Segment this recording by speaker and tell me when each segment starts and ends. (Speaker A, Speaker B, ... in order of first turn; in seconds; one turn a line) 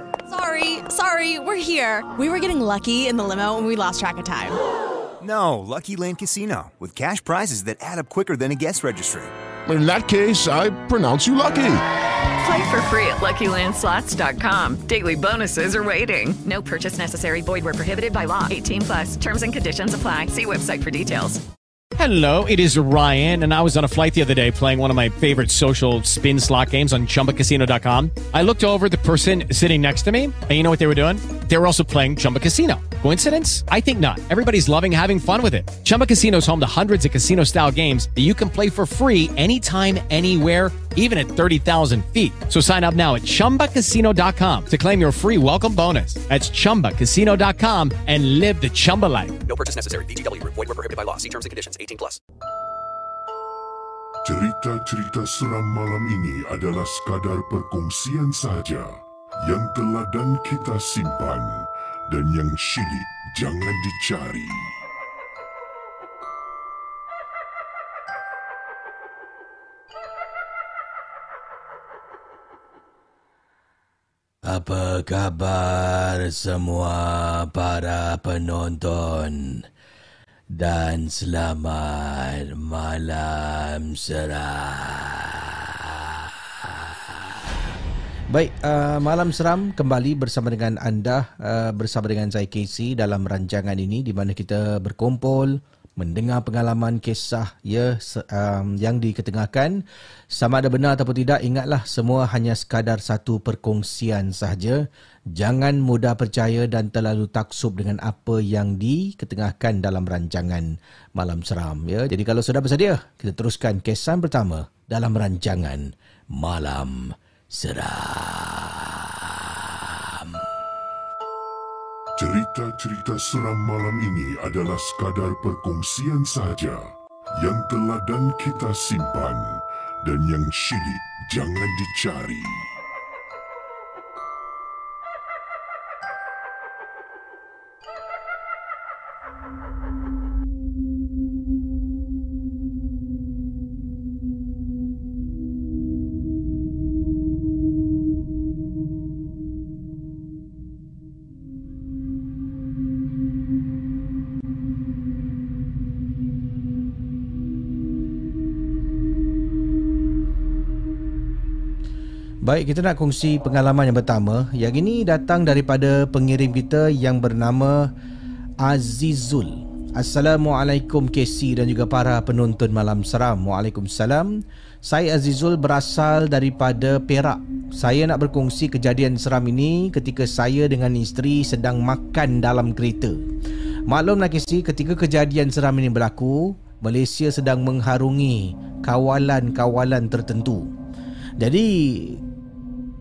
Speaker A: 0.3-4.6
Speaker B: 5.2-9.3
Speaker C: 9.7-11.8
Speaker D: 12.4-21.4
Speaker E: 22.0-49.4
Speaker F: 49.5-52.2
Speaker G: 54.2-64.8
Speaker H: 74.5-79.7
Speaker H: 80.5-87.6
Speaker H: 88.3-120.5
Speaker G: 122.2-132.7
Speaker H: 162.4-167.9
Speaker H: 168.6-183.2
Speaker H: 183.9-190.7
Speaker H: 191.4-192.2